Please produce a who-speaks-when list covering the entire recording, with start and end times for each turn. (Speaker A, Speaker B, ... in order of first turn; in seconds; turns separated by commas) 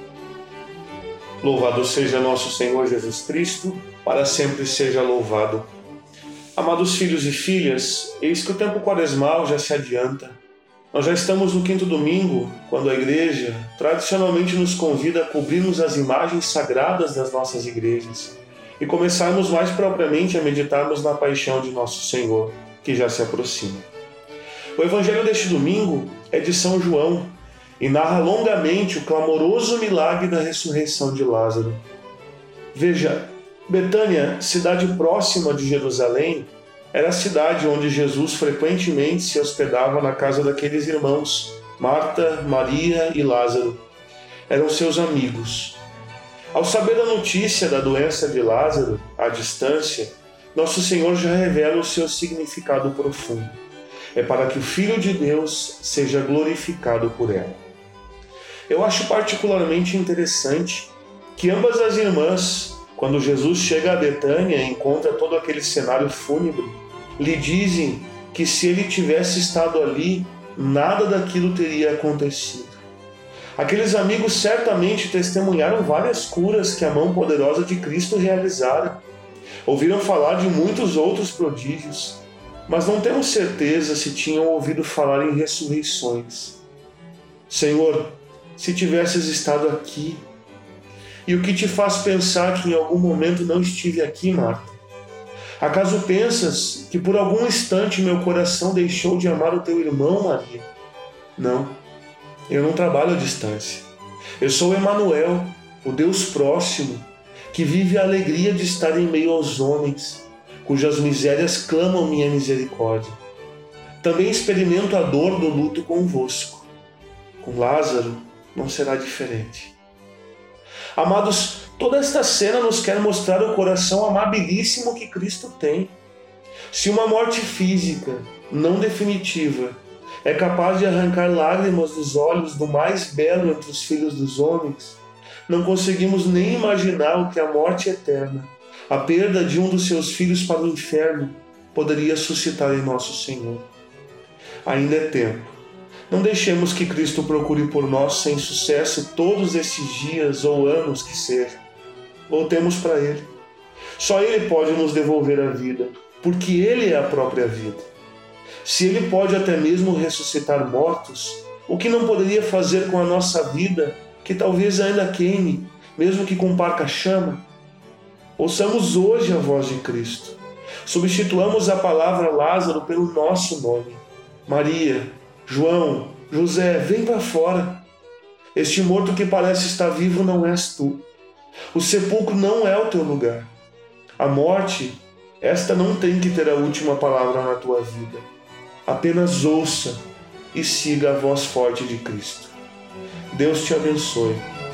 Speaker A: 1.4-5.7, Speaker A: 6.6-10.4, Speaker A: 10.9-23.9, Speaker A: 24.8-31.9, Speaker A: 32.7-43.9, Speaker A: 44.5-45.9, Speaker A: 46.5-53.6, Speaker A: 54.1-57.6, Speaker A: 58.7-72.8, Speaker A: 73.6-79.0, Speaker A: 79.7-86.6, Speaker A: 87.5-90.3, Speaker A: 91.3-94.8, Speaker A: 95.6-100.7, Speaker A: 101.4-101.8, Speaker A: 102.5-113.2, Speaker A: 114.0-116.7, Speaker A: 117.4-119.8, Speaker A: 121.0-126.0, Speaker A: 126.7-143.7, Speaker A: 144.7-151.6, Speaker A: 152.3-153.4, Speaker A: 154.0-157.9, Speaker A: 158.6-167.5, Speaker A: 168.4-177.9, Speaker A: 178.6-181.1, Speaker A: 181.7-183.6, Speaker A: 184.2-188.3, Speaker A: 188.9-192.6, Speaker A: 193.3-194.5